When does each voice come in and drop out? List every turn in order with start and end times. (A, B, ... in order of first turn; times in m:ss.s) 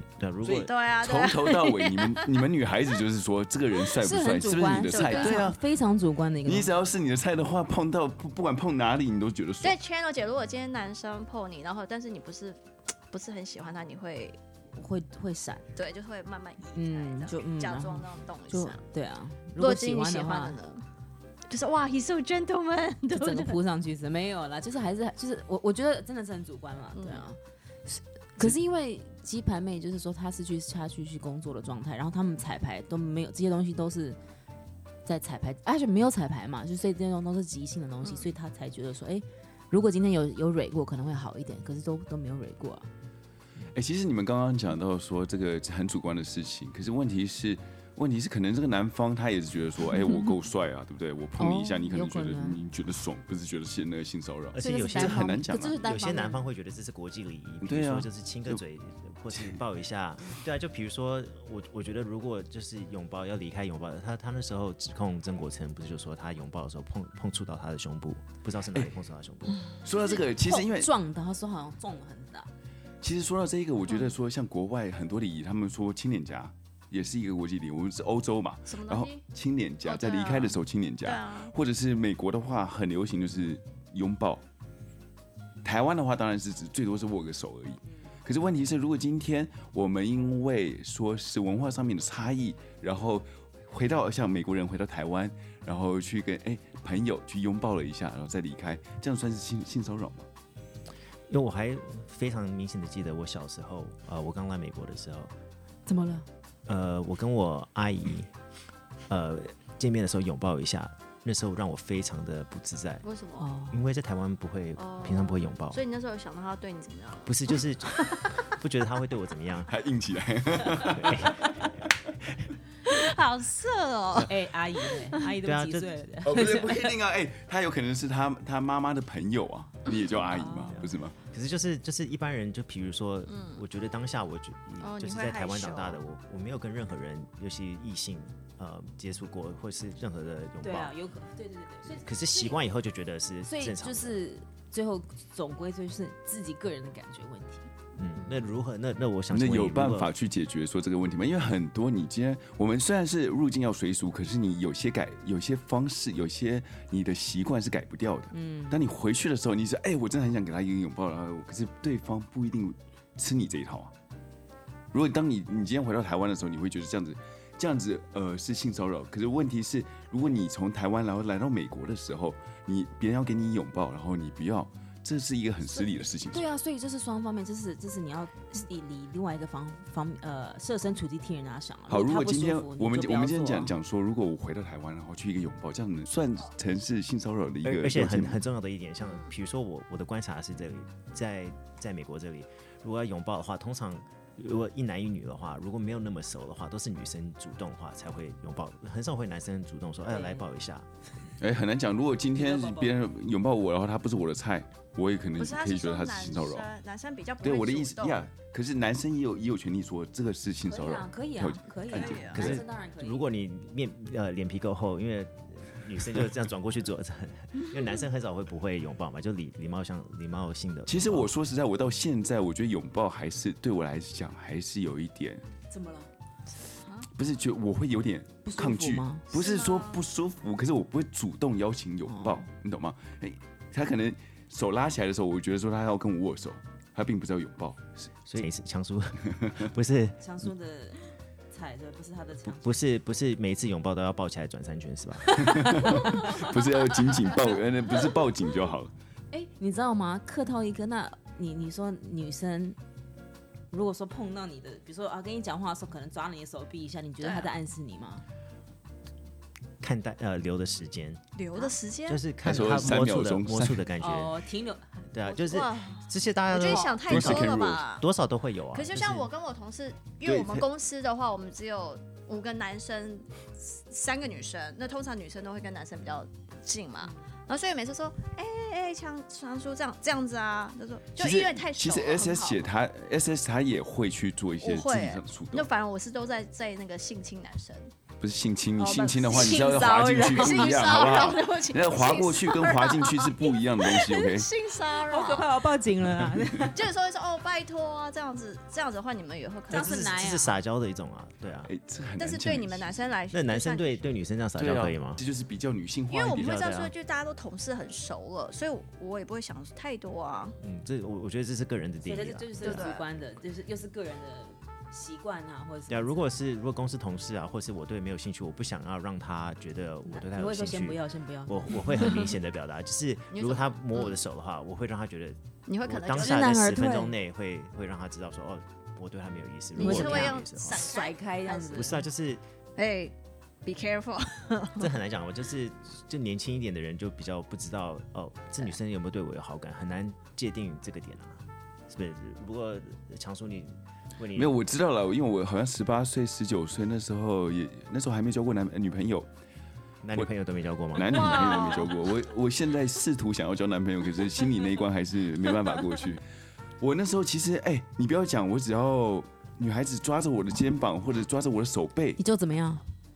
0:00.2-0:00.7 A
0:00.4-0:05.6 B
0:00.4-0:02.3 C
0:04.0-0:06.7 D
0:04.9-0:05.5 C
0:06.4-0:09.8 B
0:09.6-0:14.4 C
0:14.7-0:15.7 D
0:15.8-0:18.8 C
0:16.7-0:20.6 D
0:19.6-0:20.8 C
0:21.5-0:23.6 C
0:23.1-0:34.2 D
0:26.9-0:27.3 C
0:35.0-0:42.9 D
0:38.0-0:38.3 C
0:43.7-0:55.8 B
0:49.9-0:50.3 D
0:51.4-0:52.6 D
0:54.5-1:09.6 A
0:54.6-0:56.5 D
0:57.6-0:58.6 B
0:59.3-0:59.6 B
1:09.8-1:10.9 B
1:10.0-1:12.5 D
1:13.0-1:24.4 B
1:18.7-1:19.2 C
1:19.8-1:21.5 C
1:25.6-1:40.3 B
1:41.3-1:45.3 A
1:45.9-1:46.3 D
1:46.6-1:48.3 A
1:49.1-1:53.0 A
1:53.0-1:53.5 C
1:53.4-1:53.8 D
1:53.7-1:55.8 A
1:54.8-1:57.4 C
1:57.2-1:59.7 A
1:58.0-1:58.3 C
1:59.7-2:01.5 B
2:00.7-2:01.7 A
2:02.9-2:04.3 C
2:04.2-2:06.9 D
2:05.4-2:06.0 A
2:06.2-2:11.1 B
2:10.2-2:10.8 D
2:10.7-2:21.0 A
2:13.3-2:13.6 C
2:14.8-2:16.0 C
2:20.6-2:22.6 D
2:21.9-2:24.2 A
2:23.4-2:27.7 D
2:28.0-2:30.1 A
2:29.3-2:43.9 B
2:38.3-2:38.8 D
2:44.9-2:56.4 B
2:56.3-3:03.7 D
3:01.9-3:08.4 B
3:07.6-3:20.9 A
3:09.0-3:09.3 C
3:20.1-3:20.4 D
3:21.4-3:26.7 B
3:22.4-3:23.0 D
3:25.4-3:28.2 C
3:27.4-3:32.6 B
3:30.7-3:33.2 D
3:31.9-3:32.5 C
3:32.3-3:41.3 A
3:40.9-3:45.4 B
3:45.7-3:46.1 D
3:46.8-3:47.1 C
3:47.1-3:58.1 B
3:48.4-3:49.2 D
3:49.3-3:50.0 C
3:52.1-3:52.4 D
3:58.2-4:00.2 A
4:00.2-4:02.8 D
4:02.5-4:05.9 A
4:05.3-4:08.9 B
4:05.5-4:06.3 D
4:09.3-4:12.8 D
4:13.7-4:18.2 D
4:17.2-4:17.5 C
4:19.8-4:21.2 A
4:21.4-4:22.2 C
4:22.1-4:24.4 A
4:22.4-4:23.8 B
4:24.0-4:25.7 D
4:25.1-4:29.3 A
4:25.4-4:28.1 C
4:26.6-4:27.0 D
4:27.1-4:27.8 B
4:28.7-4:42.7 C
4:30.2-4:30.7 B
4:41.2-4:45.7 B
4:44.6-4:47.9 C
4:48.2-4:54.5 B
4:48.8-4:51.0 D
4:49.3-4:55.5 C
4:54.9-4:56.8 D
4:56.6-5:00.1 C
4:59.7-5:00.6 D
4:59.7-5:01.7 A
5:01.6-5:03.0 B
5:02.2-5:04.0 C
5:03.3-5:05.2 A
5:04.6-5:06.8 B
5:06.1-5:10.6 C
5:06.5-5:06.9 A
5:10.6-5:12.9 A
5:12.0-5:16.2 D
5:12.6-5:13.0 C
5:15.9-5:31.0 A
5:20.1-5:22.2 D
5:23.3-5:24.2 C
5:25.7-5:26.5 C
5:26.1-5:27.2 D
5:29.7-5:32.0 C
5:29.8-5:32.0 D
5:31.7-5:32.4 A
5:32.8-5:34.9 C
5:34.8-5:44.6 A
5:44.4-5:49.3 B
5:50.0-5:51.7 A
5:50.9-5:56.2 B
5:51.1-5:52.0 C
5:56.8-6:02.2 B
6:02.2-6:02.9 D